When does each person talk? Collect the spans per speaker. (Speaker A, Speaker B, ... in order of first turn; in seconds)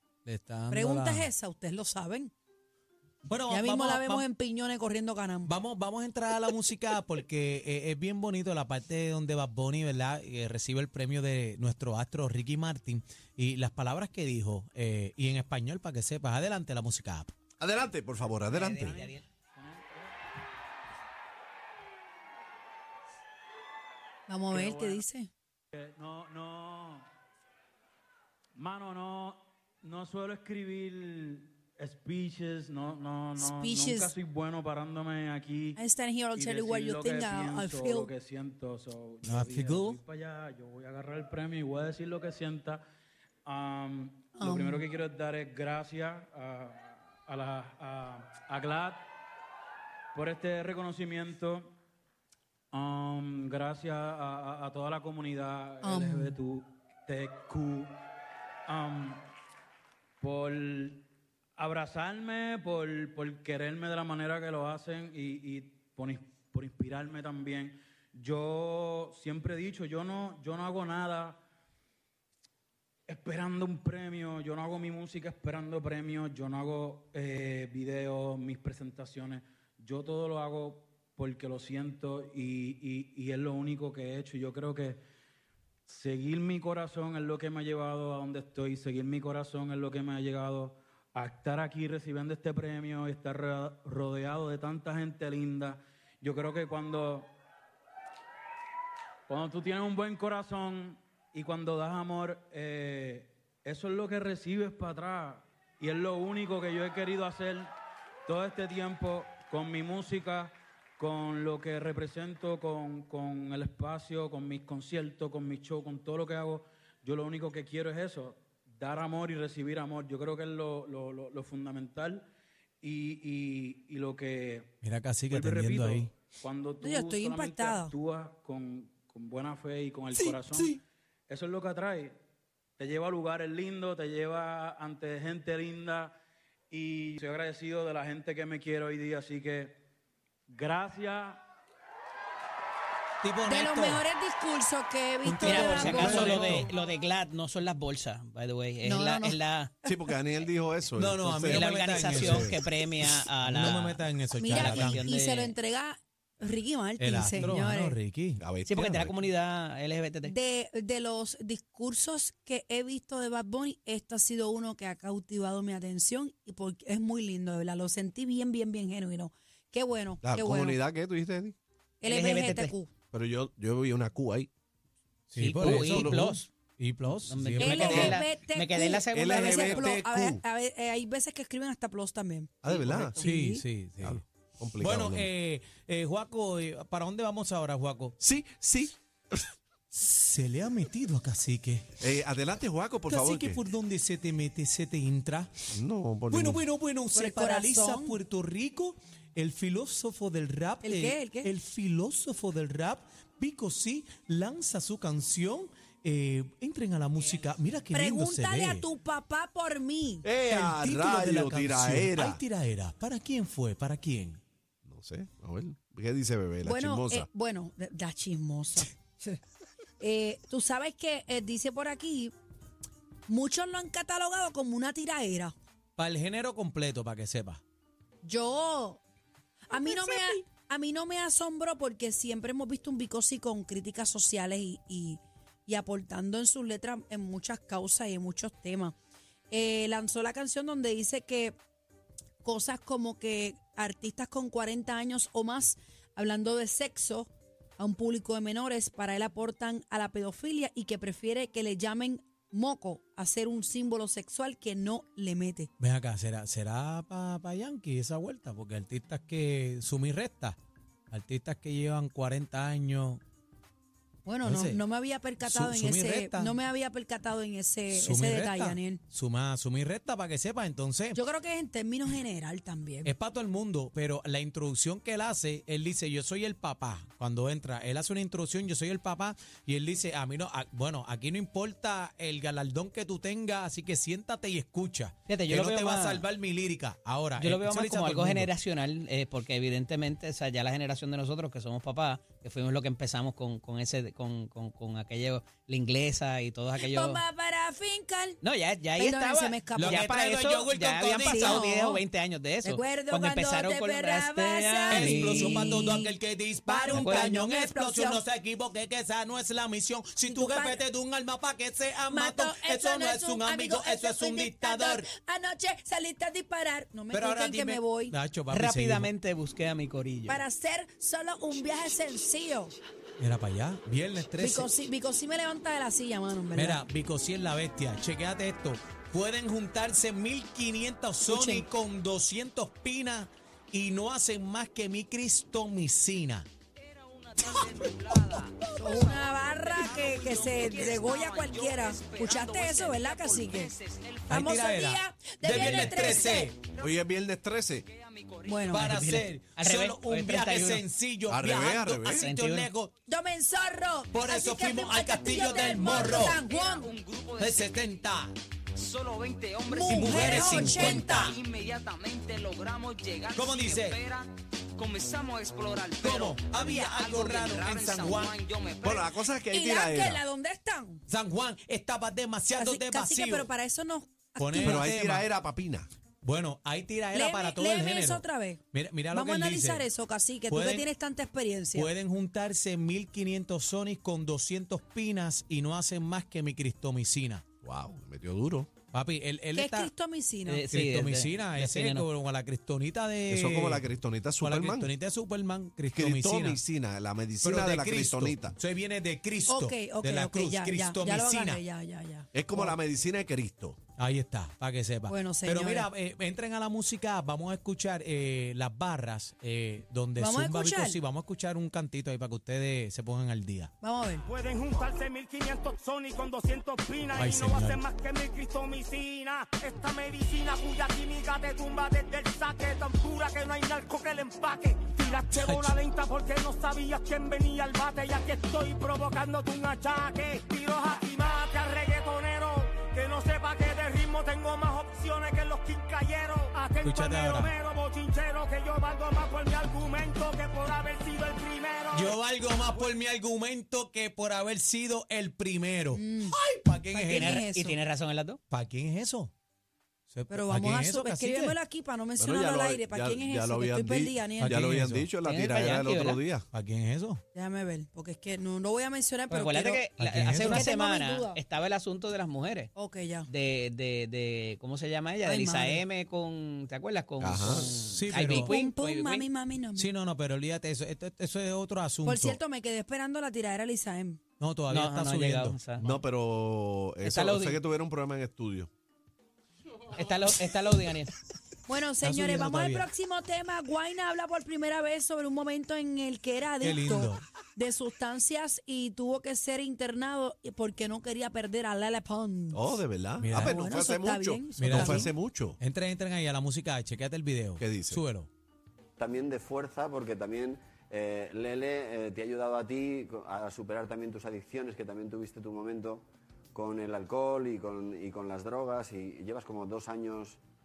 Speaker A: 0.2-1.3, 3.2-4.2, 5.5-17.3, 39.2-40.0, 124.8-126.1, 130.1-130.8, 143.2-144.0, 145.2-146.7, 150.9-152.6, 153.4-155.0, 157.0-158.4, 175.3-178.2, 183.2-184.2, 184.8-188.1, 189.9-191.8, 193.1-195.5, 196.3-208.8, 210.5-214.4, 226.0-227.6, 229.7-230.3, 255.8-260.6, 261.1-263.2, 264.4-264.8, 265.4-266.6, 267.9-271.2, 273.0-288.5, 299.8-301.6, 304.9-315.1, 317.1-319.1, 323.2-324.7, 326.5-336.5, 337.6-338.6, 344.3-346.6, 348.6-352.9, 354.1-356.4, 357.4-358.3, 359.8-361.4, 363.3-364.0, 366.0-368.4, 371.1-373.5, 374.4-375.3, 376.2-379.9, 380.5-380.9, 381.7-387.4, 388.9-389.9, 390.7-393.9, 394.4-396.6, 397.4-401.6, 404.0-413.7, 417.1-417.8, 425.0-425.8, 436.8-437.5, 441.9-447.4, 448.5-449.3, 450.1-451.6, 454.4-455.1, 456.5-457.2, 460.0-460.6, 467.4-468.6, 469.8-472.4, 474.4-475.6, 482.0-482.9, 486.6-487.2, 493.2-493.6, 494.6-495.1, 495.6-498.3
Speaker B: 0.7-2.3, 3.5-5.5, 24.3-25.3, 33.4-34.1, 35.8-38.1, 44.4-44.9, 55.8-56.4, 126.8-127.9, 143.5-146.7, 148.8-149.9, 154.3-158.0, 160.2-170.8, 172.0-172.9, 177.6-182.5, 183.2-183.6, 197.1-198.2, 200.8-201.5, 207.9-210.2, 216.6-219.4, 220.0-222.3, 223.3-225.5, 228.2-229.0, 229.7-238.9, 239.5-241.6, 242.4-255.7, 264.2-269.0, 271.1-273.1, 296.8-298.4, 298.9-300.1, 301.2-302.0, 302.6-306.1, 306.7-308.2, 310.2-310.8, 312.1-318.1, 320.3-322.7, 324.4-326.8, 331.3-331.7, 338.8-343.7, 344.3-346.5, 348.4-348.9, 353.1-356.9, 359.7-361.4, 369.5-371.0, 372.5-374.9, 377.1-378.6, 379.1-381.9, 389.5-390.6, 399.5-402.3, 405.1-405.9, 410.2-411.0, 413.8-414.2, 445.9-446.4, 446.9-447.8, 450.3-454.6, 457.3-459.8, 460.4-461.4, 462.7-463.3, 465.2-465.8, 468.3-469.9, 472.0-474.2, 481.6-492.8, 493.3-495.1
Speaker C: 17.6-19.0, 149.8-152.5, 158.4-159.1, 170.2-171.6, 173.1-174.5, 175.6-176.3, 177.8-178.1, 179.1-180.4, 182.6-183.2, 184.0-185.3, 188.2-189.4, 192.0-193.6, 195.7-196.6, 210.2-212.4, 214.8-217.3, 346.8-347.9, 351.3-352.3, 368.8-370.2, 374.6-375.9, 387.6-388.7, 393.3-394.9, 395.9-398.5, 402.3-403.8, 452.2-456.5, 467.2-467.7, 475.8-478.7, 492.5-495.6, 497.6-498.0
Speaker D: 18.5-19.2, 145.4-149.7, 151.5-155.5, 158.7-160.3, 172.1-172.7, 175.3-176.5, 177.1-179.8, 182.7-183.2, 285.3-286.3, 287.4-297.2, 298.4-305.9, 306.9-307.3, 318.5-320.4, 348.8-350.8, 352.1-352.7, 390.4-392.1, 447.1-448.4, 455.2-456.2, 459.3-462.7, 463.3-469.3, 474.7-475.9, 477.0-477.6, 479.9-481.1
Speaker E: 24.5-25.0, 33.5-34.2, 36.4-38.2, 39.5-39.9, 44.3-45.0, 46.8-47.1, 55.9-56.3, 414.2-442.2
Speaker F: 25.9-27.1, 28.6-33.4, 34.2-35.7, 38.1-39.2, 40.0-42.8, 43.5-49.0, 50.1-51.7, 52.7-55.9, 56.4-57.9, 58.7-59.2, 60.2-61.0, 61.6-71.4, 73.1-85.0, 85.8-97.3, 99.3-107.7, 108.2-122.3, 122.8-124.7, 125.3-130.7, 131.3-132.2, 132.8-136.2, 136.7-139.8, 140.5-141.4
Speaker G: 337.0-344.2, 347.9-348.5, 356.5-357.7, 358.8-364.2, 364.8-369.0
Speaker H: 499.0-506.0, 506.5-510.3